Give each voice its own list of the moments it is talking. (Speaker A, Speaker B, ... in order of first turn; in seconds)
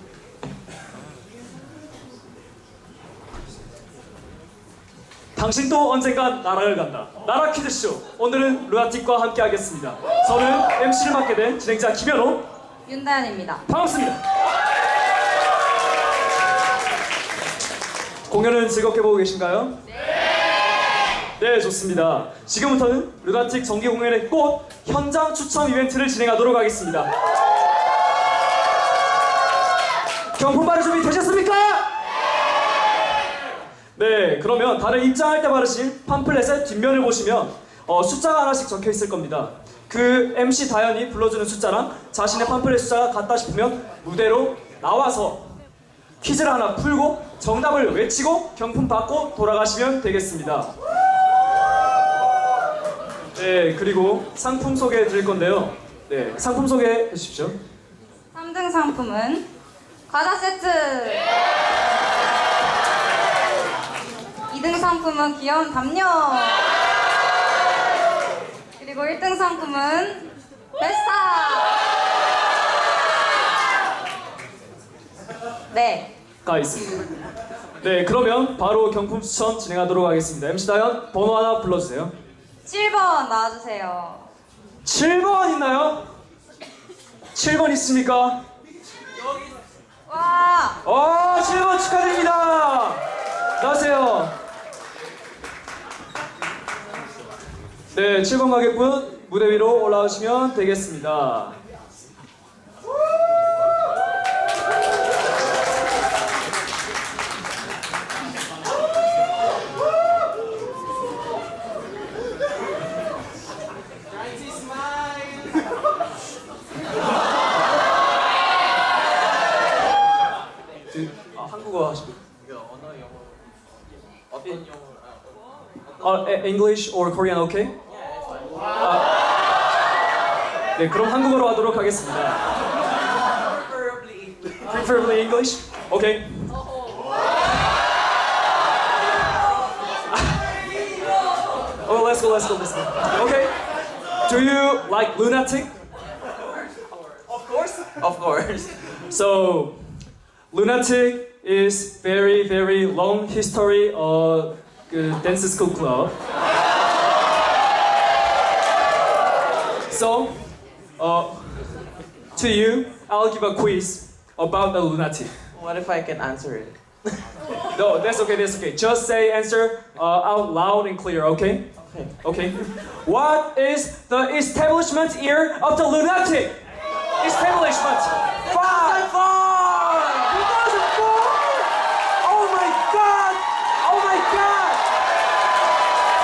Speaker A: 5.3-12.4, 13.7-14.2, 18.3-19.8, 21.4-27.1, 30.3-31.9, 34.0-45.5, 46.2-50.7, 53.4-57.5, 76.4-77.2, 77.8-82.1, 84.8-86.1, 87.3-88.4, 90.8-93.0, 93.6-94.3, 97.9-101.5, 120.9-122.2, 126.0-127.7, 128.8-129.1, 130.8-132.4, 134.5-136.5, 141.8-143.5, 144.2-145.7, 149.0-149.8, 150.5-156.1, 159.9-161.7, 162.3-165.3, 167.7-171.7, 172.2-176.6, 177.2-181.7, 182.2-184.8
Speaker B: 12.9-13.7, 58.3-59.5, 60.1-61.3, 64.5-66.7, 68.8-71.9, 75.7-76.1, 82.6-84.3, 90.1-90.8
Speaker C: 147.3-148.8, 165.6-166.8, 178.6-179.1